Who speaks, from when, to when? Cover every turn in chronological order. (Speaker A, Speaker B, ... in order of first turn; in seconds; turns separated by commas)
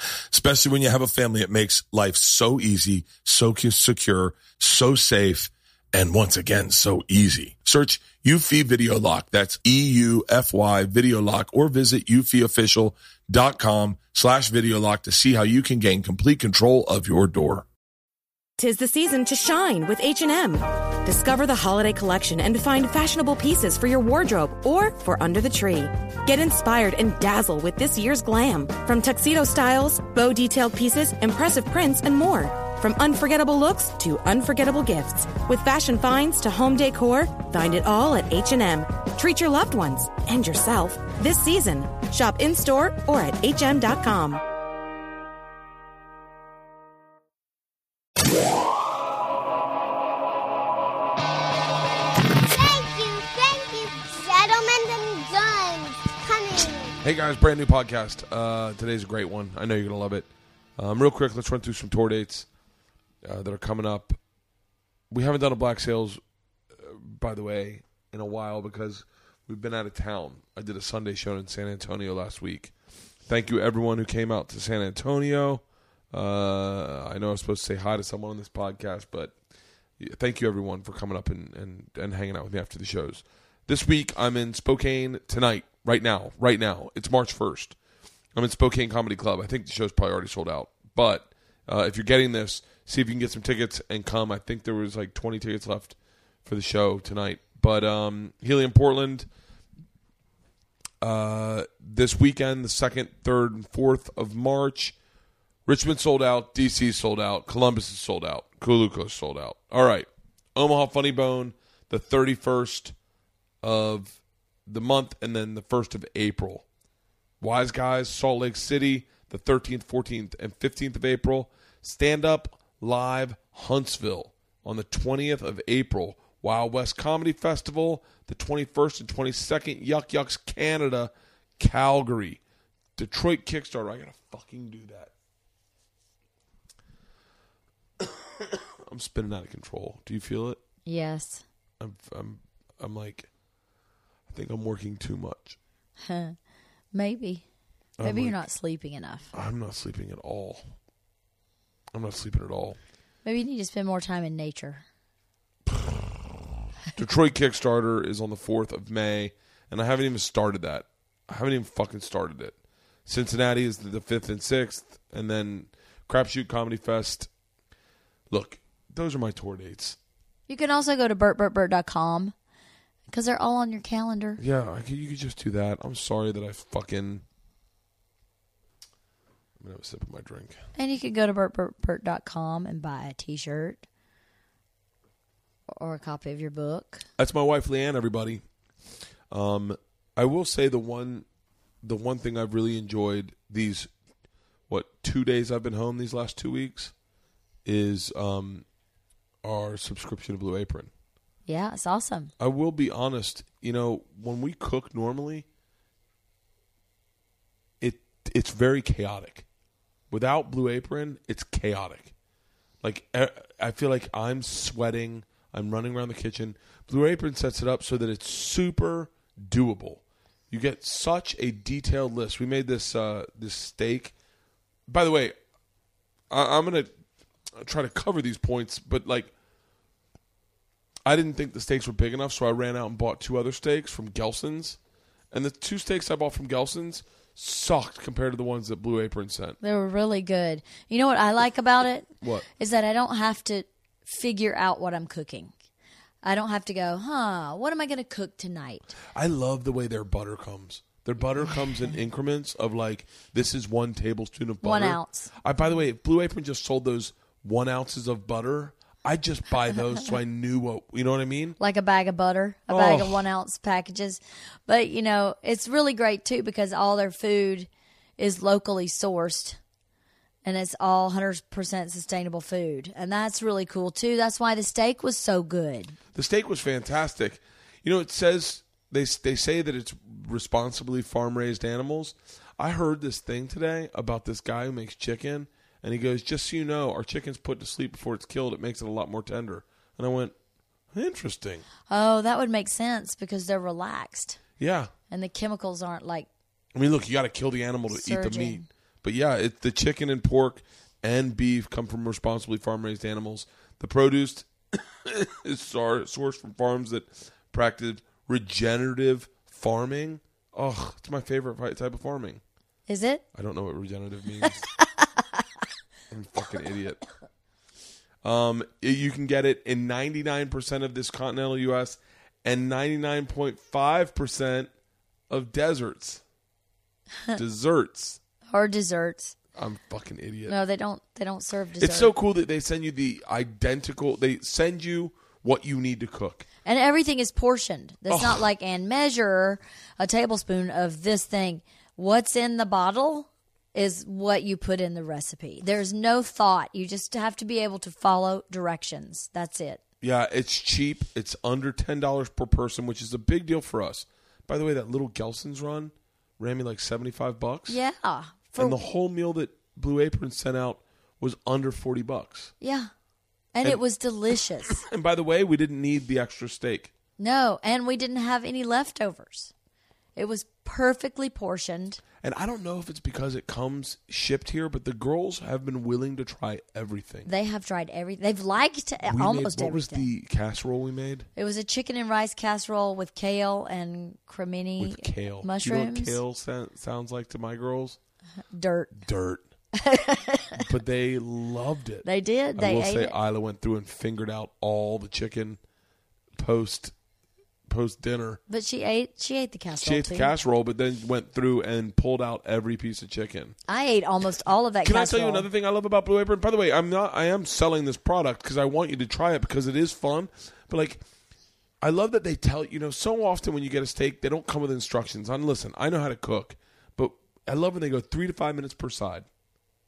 Speaker A: 0.3-17.7, Speaker B: 18.6-44.4, Speaker C: 52.4-56.9, Speaker D: 57.0-60.3, Speaker D: 60.8-62.5, Speaker D: 63.2-64.2, Speaker D: 65.1-66.2, Speaker D: 66.8-72.7, Speaker D: 73.3-75.6, Speaker D: 76.1-79.3, Speaker D: 80.0-87.8, Speaker D: 88.3-99.3, Speaker D: 101.0-105.0, Speaker D: 105.7-112.9, Speaker D: 113.6-114.2, Speaker D: 114.7-116.7, Speaker D: 117.4-132.4, Speaker D: 133.0-135.1, Speaker D: 138.9-140.6, Speaker E: 140.9-141.4, Speaker D: 141.8-143.3, Speaker D: 144.3-145.6, Speaker E: 146.1-146.4, Speaker E: 146.9-147.4, Speaker D: 148.0-148.4, Speaker E: 148.0-149.3, Speaker D: 149.3-150.6, Speaker D: 151.9-152.8, Speaker E: 153.2-154.8, Speaker D: 155.7-156.0, Speaker D: 157.0-162.5, Speaker D: 163.1-167.3, Speaker D: 168.3-170.0, Speaker E: 170.5-172.3, Speaker E: 173.1-174.4, Speaker D: 174.4-177.2, Speaker D: 179.6-180.6, Speaker E: 180.8-183.8, Speaker E: 185.7-187.0, Speaker D: 187.2-188.4, Speaker D: 189.3-191.3, Speaker D: 191.8-193.9, Speaker D: 194.7-196.9, Speaker D: 197.7-198.7, Speaker D: 199.4-200.9, Speaker E: 201.5-202.3, Speaker D: 202.4-205.5, Speaker D: 207.8-209.4, Speaker D: 210.1-212.1, Speaker D: 212.8-224.1, Speaker D: 224.9-225.3, Speaker D: 226.3-226.9, Speaker D: 227.6-229.3, Speaker D: 231.1-234.8, Speaker D: 235.3-239.6, Speaker E: 239.6-245.5, Speaker D: 242.2-242.5, Speaker E: 246.2-249.0, Speaker D: 249.2-261.6, Speaker E: 254.6-255.3, Speaker E: 261.6-269.6, Speaker D: 262.7-263.2, Speaker E: 270.4-275.9, Speaker D: 276.1-290.3, Speaker D: 290.9-291.7, Speaker E: 291.9-294.4, Speaker D: 294.6-294.9, Speaker E: 295.1-296.3, Speaker D: 296.8-312.4, Speaker E: 297.9-298.6, Speaker E: 312.9-313.2, Speaker D: 313.4-314.7, Speaker D: 316.1-317.0, Speaker D: 318.2-324.7, Speaker D: 325.3-326.2, Speaker D: 327.3-328.2, Speaker E: 328.5-329.4, Speaker D: 329.6-330.6, Speaker E: 330.5-332.1, Speaker D: 331.8-336.5, Speaker E: 336.6-349.8, Speaker D: 338.1-338.4, Speaker D: 350.0-357.8, Speaker E: 357.7-358.8, Speaker D: 358.6-362.5, Speaker E: 362.6-362.9, Speaker E: 363.5-364.8, Speaker D: 364.7-366.9, Speaker E: 367.2-369.5, Speaker E: 370.2-372.0, Speaker D: 372.2-377.3, Speaker E: 377.3-380.1, Speaker D: 379.1-381.3, Speaker E: 381.4-386.2, Speaker D: 384.8-388.0, Speaker E: 388.5-388.9, Speaker D: 388.9-389.4, Speaker E: 389.7-390.6, Speaker D: 390.6-395.6, Speaker E: 392.1-393.1, Speaker D: 396.4-396.9, Speaker D: 397.7-398.4, Speaker E: 398.5-400.3, Speaker D: 399.8-403.6, Speaker E: 403.7-405.5, Speaker D: 404.8-411.0, Speaker D: 411.8-419.3